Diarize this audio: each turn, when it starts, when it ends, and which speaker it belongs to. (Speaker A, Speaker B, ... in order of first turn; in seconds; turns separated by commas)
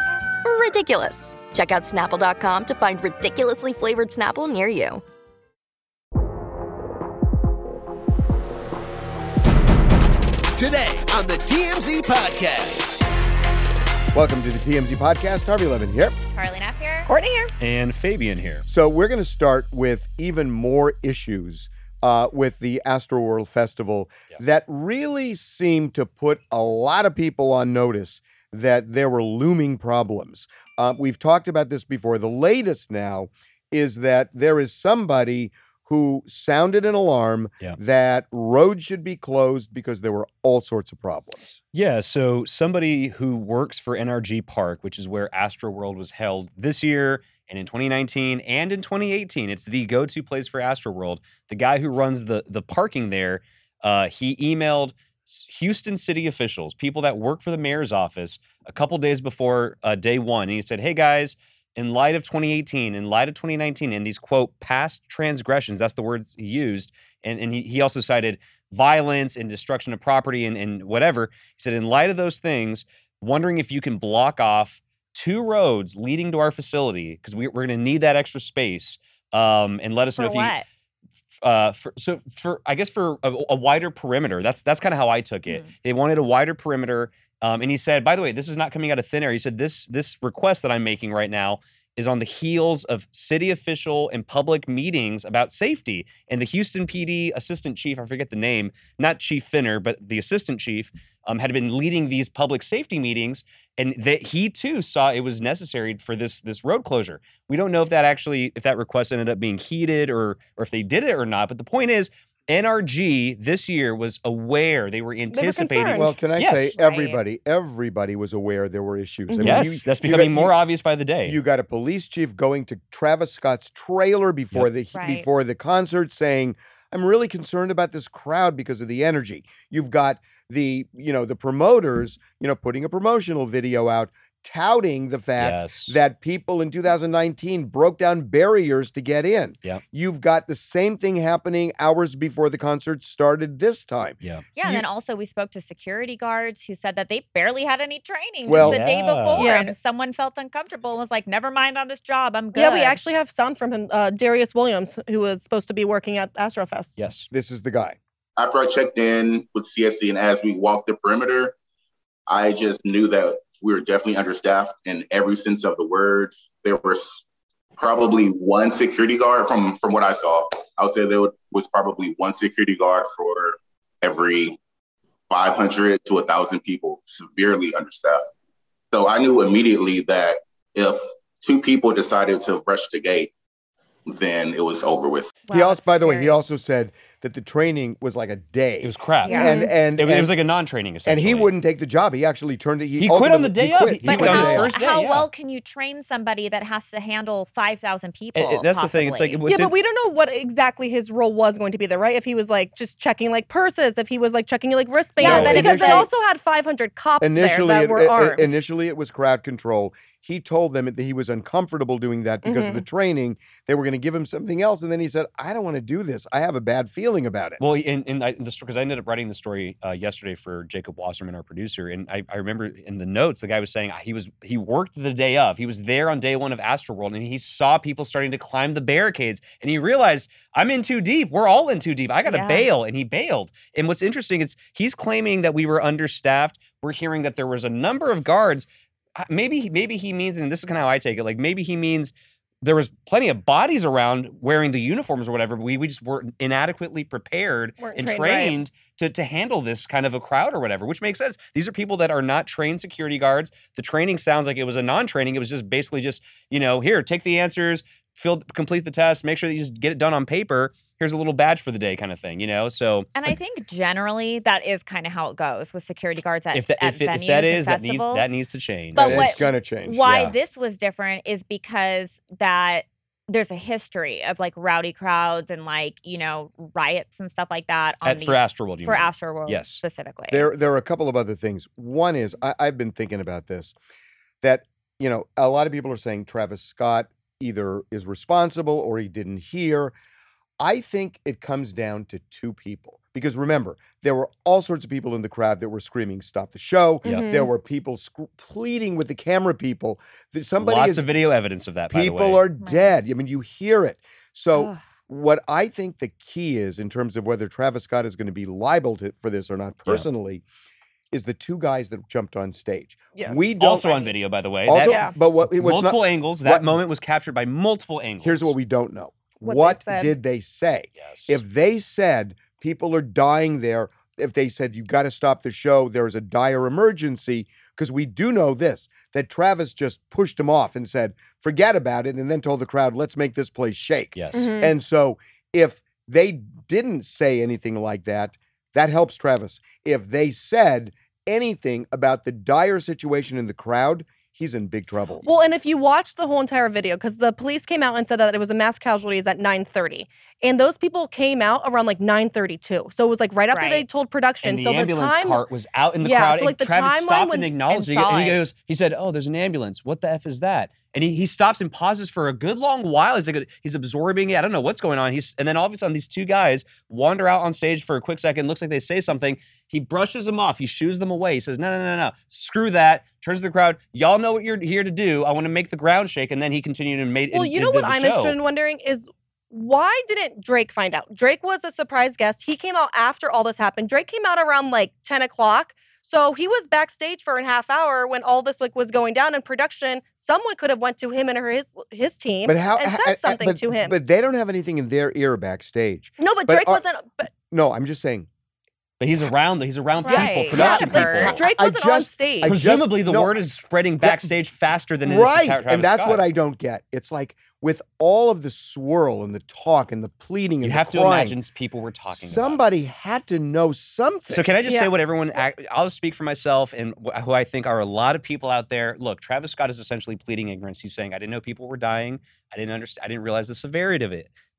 Speaker A: 0.4-5.0, Speaker B: 10.6-13.0, Speaker C: 14.1-16.1, Speaker D: 16.3-17.1, Speaker E: 17.1-17.5, Speaker F: 17.6-18.6, Speaker C: 18.7-41.6, Speaker F: 41.7-80.5, Speaker D: 80.2-80.6, Speaker F: 81.4-116.7, Speaker E: 115.3-116.1, Speaker C: 115.9-120.6, Speaker D: 116.8-117.2, Speaker E: 119.3-119.7, Speaker F: 119.4-121.4, Speaker C: 121.2-144.8, Speaker D: 124.9-125.2, Speaker F: 135.4-136.0, Speaker D: 144.6-153.0, Speaker C: 148.4-148.8, Speaker F: 148.5-149.5, Speaker E: 149.4-149.7, Speaker E: 152.5-156.9, Speaker F: 157.0-157.3, Speaker C: 157.3-158.0, Speaker G: 158.4-161.5, Speaker G: 162.3-167.2, Speaker G: 167.8-174.6, Speaker G: 175.3-178.2, Speaker G: 178.9-183.3, Speaker G: 184.1-185.3, Speaker D: 185.5-186.4, Speaker C: 185.5-190.3, Speaker F: 188.8-191.5, Speaker D: 189.2-189.5, Speaker E: 189.3-189.7, Speaker C: 191.0-194.7, Speaker F: 193.0-195.3, Speaker D: 194.1-199.4, Speaker F: 198.3-199.7, Speaker E: 199.5-208.6, Speaker F: 205.2-206.0, Speaker C: 205.2-206.1, Speaker D: 205.2-206.0, Speaker C: 207.2-217.6, Speaker E: 212.4-212.8, Speaker F: 217.6-238.7, Speaker D: 232.2-232.7, Speaker F: 239.2-263.1, Speaker E: 247.8-248.6, Speaker D: 263.1-268.3, Speaker F: 266.5-269.5, Speaker D: 268.9-280.4, Speaker C: 268.9-270.0, Speaker F: 270.0-270.3, Speaker F: 278.0-279.8, Speaker C: 280.3-283.7, Speaker C: 284.4-289.9, Speaker C: 290.6-301.1, Speaker E: 297.1-297.5, Speaker F: 300.6-302.4, Speaker C: 301.9-310.4, Speaker D: 302.6-302.9, Speaker D: 304.5-304.8, Speaker C: 311.1-314.1, Speaker E: 313.1-313.4, Speaker F: 313.6-318.5, Speaker C: 314.6-316.8, Speaker E: 314.8-315.1, Speaker C: 318.2-345.2, Speaker E: 319.4-320.1, Speaker F: 321.0-321.4, Speaker F: 334.1-334.5, Speaker E: 334.3-334.7, Speaker E: 345.2-355.4, Speaker D: 353.5-353.8, Speaker F: 354.4-378.4, Speaker E: 356.0-357.5, Speaker D: 357.7-358.4, Speaker E: 377.3-393.9, Speaker C: 392.4-396.8, Speaker E: 396.2-397.3, Speaker C: 397.5-398.3, Speaker F: 399.0-401.4, Speaker D: 400.0-401.3, Speaker E: 400.1-402.5, Speaker C: 401.1-403.4, Speaker F: 402.4-406.2, Speaker C: 404.0-404.3, Speaker C: 405.0-411.4, Speaker F: 410.6-412.6, Speaker C: 412.1-414.5, Speaker F: 414.3-424.3, Speaker E: 414.6-414.9